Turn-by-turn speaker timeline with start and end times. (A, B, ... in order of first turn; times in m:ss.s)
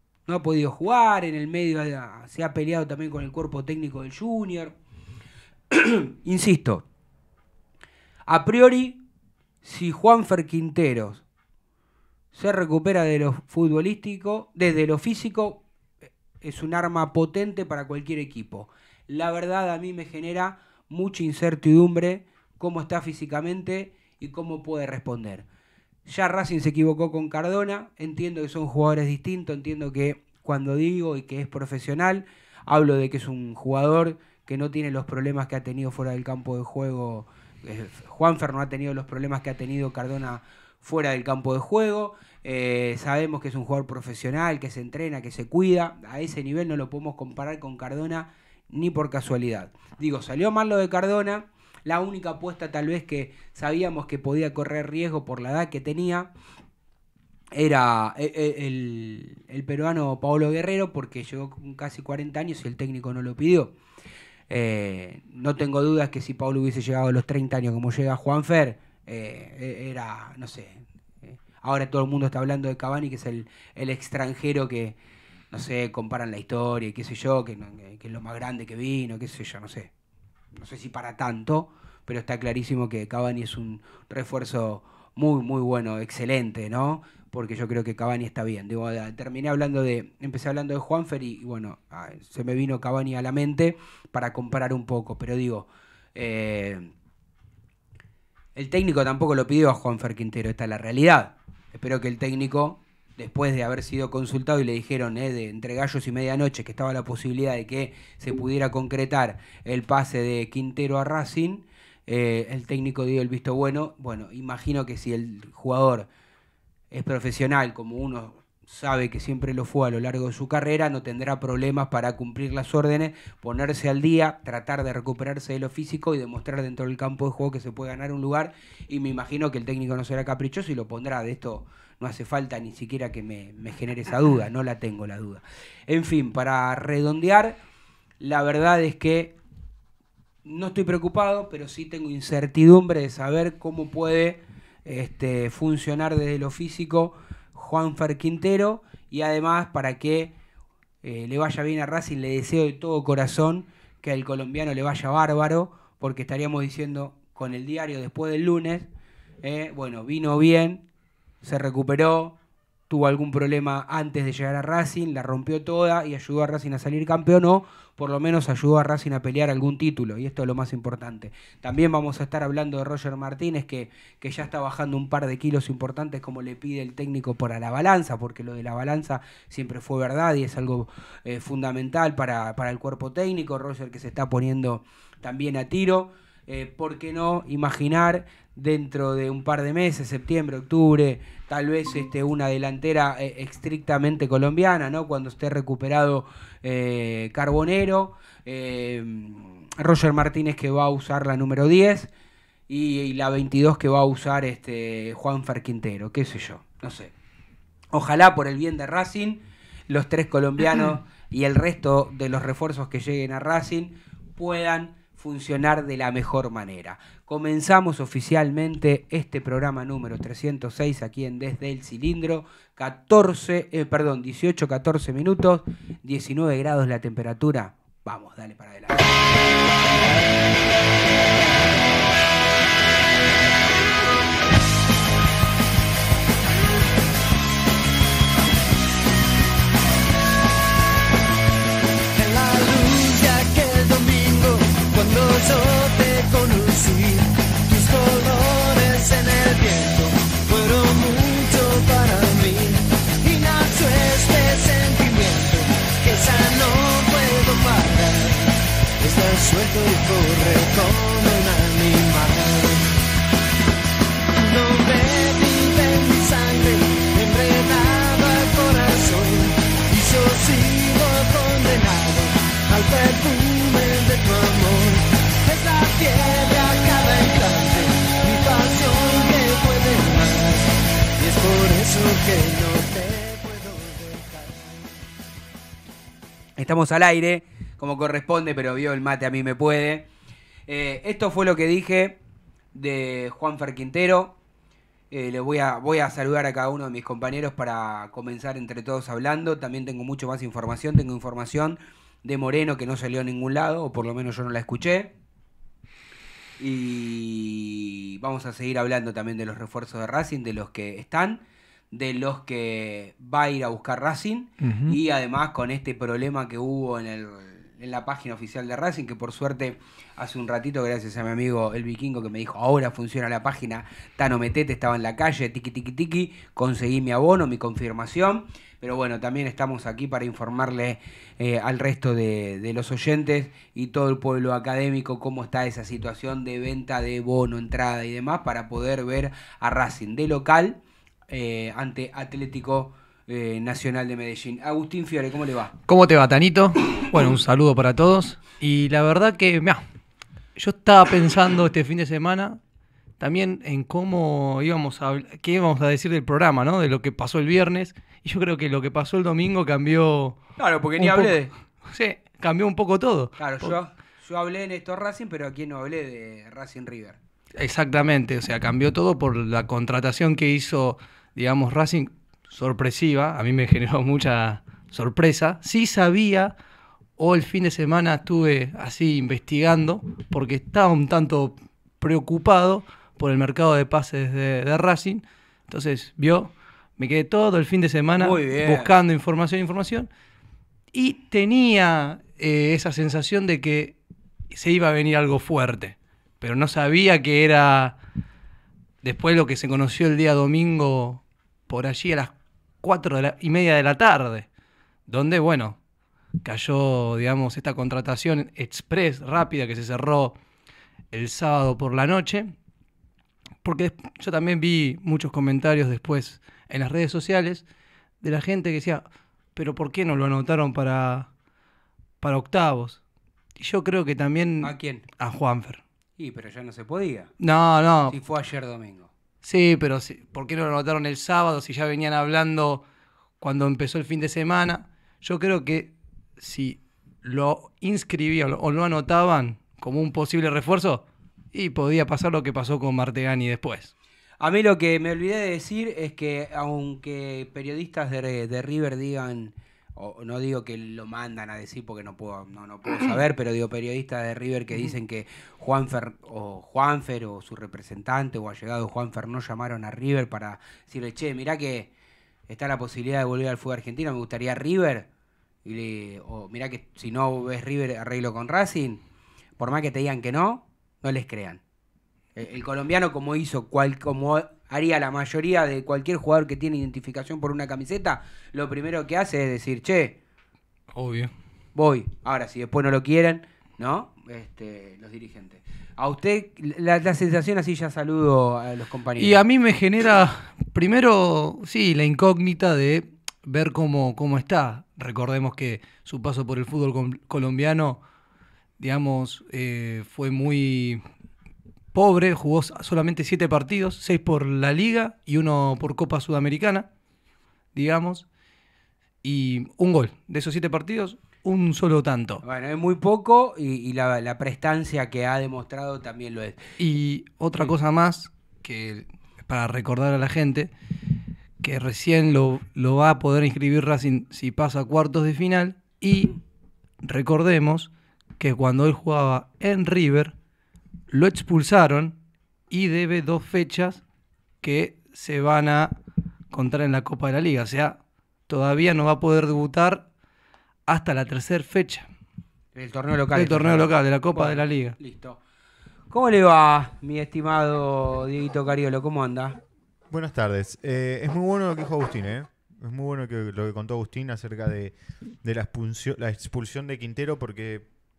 0:00.3-0:04.7 A
0:05.7-0:06.8 A
0:08.3-0:09.0 A
0:09.6-0:11.2 A
0:12.3-0:15.6 A
0:16.4-0:25.4 A
0:26.0-0:56.3 A
0:57.5-1:03.7 A
1:04.5-1:15.0 A
1:15.5-1:19.9 A
1:20.6-1:36.9 A
1:38.6-1:56.1 A
1:56.9-2:17.6 A
2:18.2-2:19.3 A
2:20.4-2:30.3 A
2:31.0-2:38.9 A
2:39.4-2:40.8 A
2:41.4-2:42.3 A
2:42.9-3:22.1 A
3:22.7-3:27.1 A
3:27.9-3:49.0 A
4:02.1-4:23.0 B
4:24.3-4:44.9 B
4:46.6-4:50.1 A
4:50.7-4:52.2 A
4:52.7-4:54.4 A
4:55.1-5:05.1 A
5:06.6-5:45.7 A
5:14.6-5:15.0 C
5:45.9-5:49.8 C
5:50.6-5:52.6 C
5:53.2-6:00.4 C
6:00.6-6:01.5 A
6:01.0-6:03.8 C
6:03.4-6:07.2 A
6:07.6-6:16.5 C
6:17.2-6:30.1 C
6:28.2-6:28.9 A
6:30.9-6:34.0 C
6:34.5-6:38.0 C
6:39.0-6:44.5 C
6:45.1-6:45.8 C
6:46.4-6:50.4 C
6:51.1-6:52.5 C
6:53.6-6:57.6 C
6:58.2-6:59.0 C
6:59.6-7:01.3 C
7:02.2-7:03.0 C
7:03.6-7:05.8 C
7:04.6-7:05.0 A
7:06.2-7:07.3 A
7:07.4-7:08.2 C
7:08.1-7:09.1 A
7:09.4-7:12.8 C
7:13.4-7:23.9 C
7:24.4-7:41.9 A
7:42.5-7:45.1 A
7:45.6-7:49.0 A
7:49.6-7:51.6 A
7:52.4-8:00.2 A
8:00.9-8:01.3 C
8:01.7-8:09.4 A
8:09.2-8:18.0 C
8:18.8-8:21.0 C
8:21.9-8:26.9 C
8:27.7-8:28.2 C
8:29.2-8:32.4 C
8:32.4-8:36.6 A
8:36.8-8:40.7 C
8:41.6-8:46.4 C
8:47.0-8:50.3 C
8:51.1-8:52.2 C
8:52.7-8:54.0 C
8:54.6-8:56.0 C
8:56.5-9:00.0 C
9:00.9-9:02.1 C
9:02.7-9:05.4 A
9:03.3-9:05.0 C
9:06.1-9:09.6 A
9:10.1-9:17.9 D